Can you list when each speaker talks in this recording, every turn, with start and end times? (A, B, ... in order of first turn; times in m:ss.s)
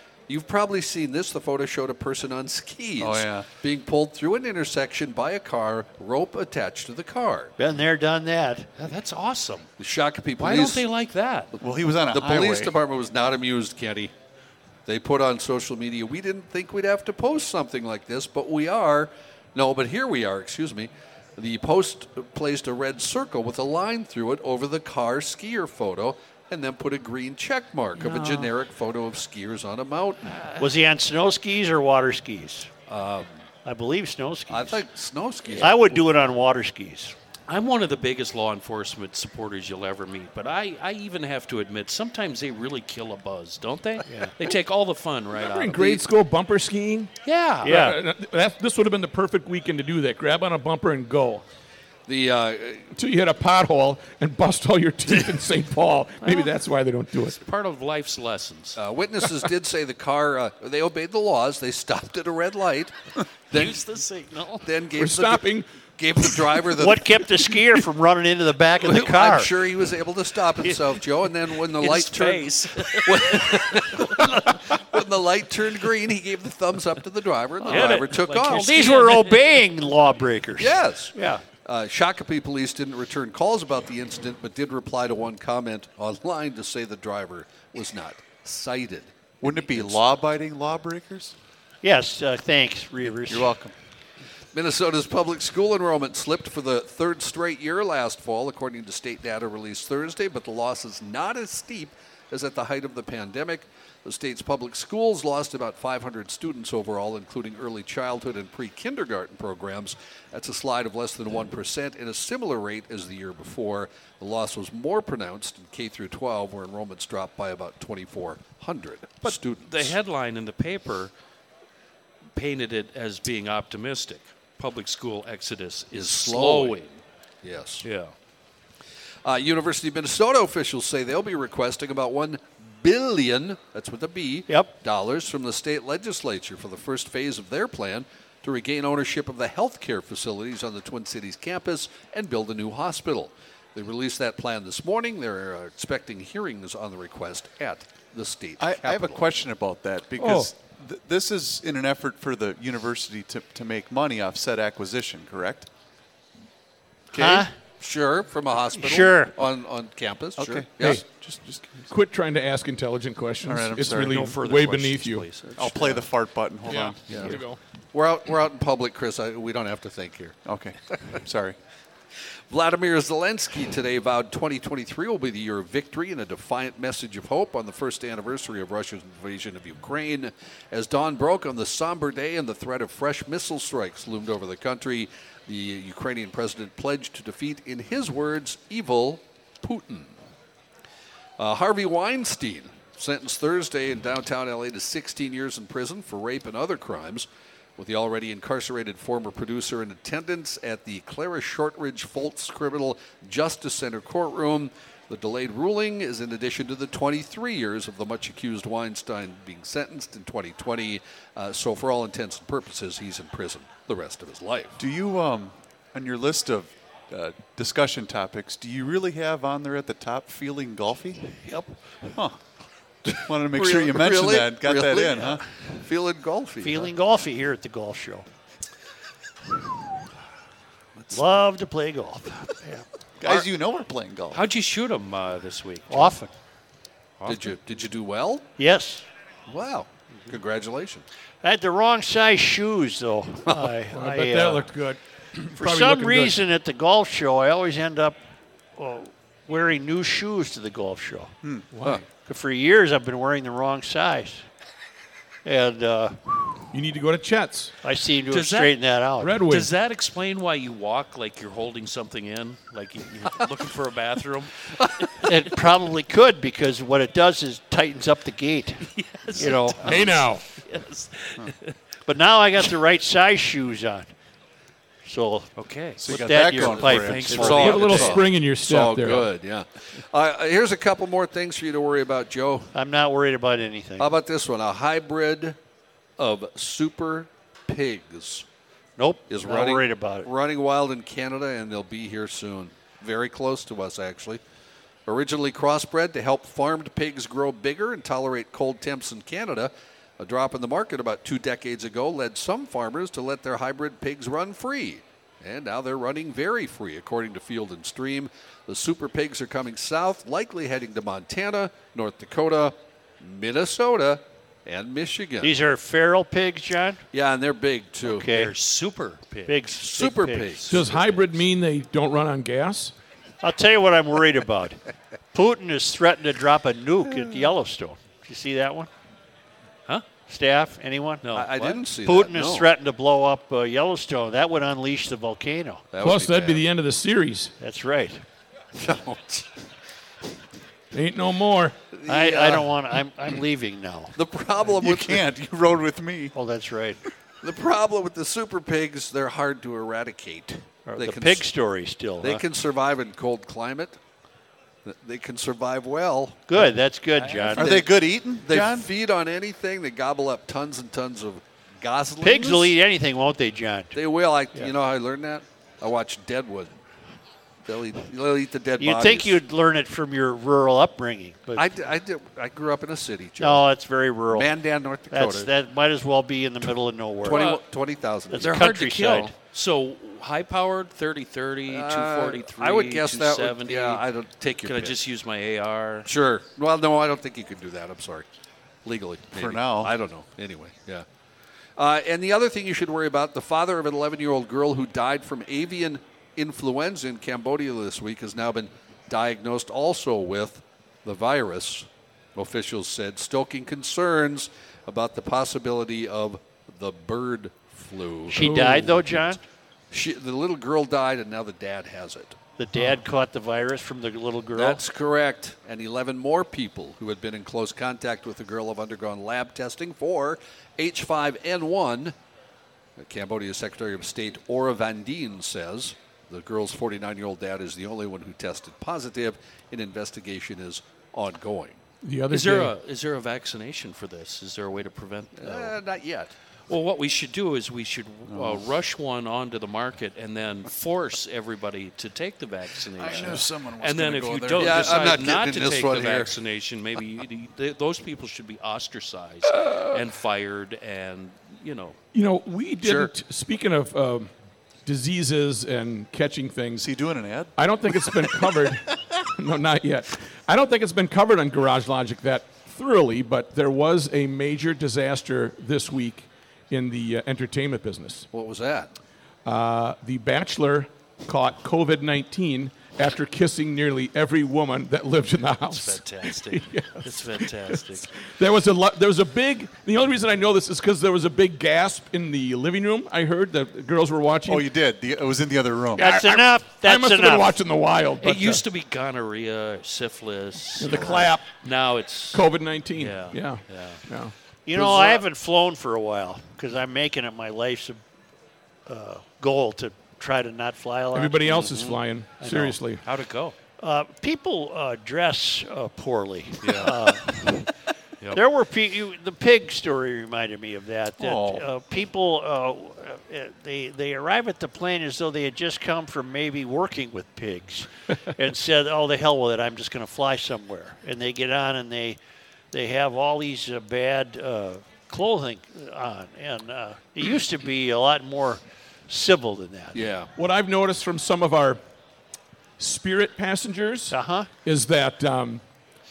0:00.3-0:07.5 A
0:03.0-0:03.5 B
0:07.6-0:08.7 C
0:08.8-0:09.7 D
0:09.8-0:10.8 A
0:10.4-0:11.5 D
0:11.6-0:12.8 B
0:12.1-0:14.1 A
0:14.9-0:30.4 A
0:28.0-0:28.5 D
0:30.3-0:30.7 D
0:30.6-0:32.7 C
0:32.9-0:33.4 A
0:33.6-0:34.9 C
0:34.5-0:35.8 A
0:35.6-0:37.2 C
0:37.5-0:46.0 D
0:44.1-0:44.3 C
0:45.5-0:47.1 E
0:47.2-0:47.9 D
0:47.6-0:51.4 E
0:47.6-0:48.0 C
0:52.1-0:52.9 A
0:53.0-0:57.4 E
0:56.2-0:56.5 D
0:57.4-0:58.8 D
0:58.8-1:02.9 A
1:03.5-1:03.8 A
1:03.5-1:04.7 D
1:04.6-1:05.4 A
1:05.0-1:05.7 E
1:06.0-1:07.3 A
1:06.8-1:09.5 C
1:08.8-1:18.7 A
1:11.6-1:14.1 D
1:17.6-1:21.4 C
1:17.6-1:19.6 D
1:20.6-1:30.0 A
1:29.4-1:31.3 B
1:31.8-1:33.5 C
1:33.3-1:33.7 B
1:34.5-2:00.0 A
1:59.2-2:01.1 D
2:02.4-2:07.0 D
2:05.9-2:06.8 A
2:07.4-2:07.9 A
2:07.8-2:08.1 D
2:09.2-2:29.2 A
2:28.6-2:35.7 B
2:30.2-2:30.5 C
2:37.1-2:41.0 A
2:37.1-2:37.5 C
2:38.8-2:39.3 C
2:40.4-2:41.9 B
2:41.9-2:45.3 E
2:43.4-2:44.2 B
2:43.9-2:46.0 D
2:45.6-2:47.4 B
2:46.6-2:47.6 E
2:47.1-2:47.4 A
2:47.9-2:50.4 A
2:50.4-2:51.6 B
2:52.5-3:10.2 A
3:11.4-3:34.8 A
3:34.8-3:41.4 B
3:41.5-3:41.7 C
3:42.1-3:42.4 B
3:43.1-3:45.4 B
3:43.5-3:46.9 A
3:46.6-3:48.3 C
3:51.1-3:52.8 C
3:53.2-3:54.4 B
3:54.3-3:56.2 D
3:55.9-3:56.3 C
3:57.2-3:57.6 D
3:57.3-3:58.5 A
3:58.6-3:59.0 C
3:59.5-4:01.0 A
4:01.4-4:04.7 C
4:03.8-4:06.4 E
4:05.6-4:08.2 C
4:08.8-4:11.4 C
4:11.7-4:12.0 E
4:12.1-4:14.4 C
4:15.4-4:16.7 C
4:16.7-4:17.7 E
4:17.8-4:19.4 C
4:18.3-4:18.8 D
4:19.2-4:19.7 E
4:19.5-4:25.3 D
4:25.2-4:30.1 C
4:29.0-4:31.8 D
4:29.8-4:30.4 E
4:32.1-4:34.1 C
4:35.0-4:35.5 C
4:35.6-4:38.2 D
4:36.0-4:38.2 B
4:36.0-4:38.0 C
4:36.8-4:42.7 A
4:37.6-4:39.3 E
4:42.7-4:44.1 C
4:44.0-4:45.6 A
4:46.2-4:48.4 A
4:49.0-4:50.3 C
4:49.3-4:54.4 A
4:55.1-5:15.6 A
5:15.4-5:17.0 C
5:17.1-5:18.3 A
5:18.0-5:18.5 C
5:18.3-5:19.6 D
5:19.5-5:20.6 C
5:19.7-5:20.8 A
5:20.6-5:21.4 D
5:20.7-5:22.9 E
5:23.4-5:24.8 C
5:25.3-5:28.9 C
5:30.3-5:31.4 C
5:31.2-5:31.8 D
5:31.3-5:32.7 A
5:32.0-5:35.8 C
5:35.9-5:36.6 A
5:36.0-5:37.5 E
5:37.6-5:38.2 C
5:38.8-5:39.5 A
5:40.9-5:41.8 E
5:41.9-5:42.7 A
5:42.1-5:44.2 C
5:44.2-5:45.2 A
5:44.7-5:46.3 B
5:46.4-5:47.0 C
5:47.4-5:51.5 A
5:50.9-5:52.4 C
5:52.2-5:54.0 A
5:54.8-5:56.6 A
5:56.5-5:57.9 C
5:57.2-5:57.9 D
5:57.6-5:58.9 B
5:58.4-6:02.8 A
6:02.2-6:04.0 C
6:03.9-6:06.7 A
6:07.6-6:09.4 A
6:08.8-6:11.7 C
6:11.6-6:13.7 A
6:13.4-6:14.5 C
6:14.3-6:15.5 A
6:15.1-6:17.6 C
6:17.2-6:18.7 A
6:18.3-6:19.3 C
6:18.4-6:24.1 D
6:21.7-6:25.0 A
6:24.6-6:26.1 D
6:26.0-6:28.3 A
6:28.8-6:31.1 A
6:29.4-6:29.9 B
6:31.8-6:48.6 A
6:48.3-6:49.4 C
6:48.4-6:49.2 E
6:49.9-6:52.4 A
6:52.6-6:54.8 C
6:54.6-7:02.2 A
7:03.0-7:11.8 A
7:12.0-7:12.7 E
7:12.3-7:15.8 D
7:15.4-7:16.3 A
7:16.7-7:32.0 D
7:18.3-7:18.6 B
7:23.0-7:25.4 B
7:24.6-7:26.4 A
7:29.5-7:30.0 E
7:32.1-7:34.3 E
7:32.8-7:33.1 A
7:34.8-7:36.9 E
7:36.8-7:37.5 B
7:37.6-7:48.3 E
7:48.3-7:48.9 A
7:49.4-8:04.7 E
7:55.7-7:58.2 D
8:04.5-8:06.1 B
8:06.0-8:07.6 C
8:06.0-8:08.6 E
8:08.2-8:12.4 D
8:10.8-8:11.6 E
8:12.3-8:15.2 E
8:13.0-8:14.0 D
8:14.7-8:18.0 C
8:18.9-8:21.7 C
8:21.1-8:23.0 E
8:22.4-8:22.8 C
8:23.0-8:23.6 D
8:23.8-8:27.7 C
8:26.6-8:27.0 D
8:28.3-8:42.2 C
8:31.2-8:31.6 B
8:42.7-8:50.1 C
8:49.9-8:50.3 A
8:50.4-8:51.8 E
8:52.8-8:55.6 E
8:54.1-8:54.5 C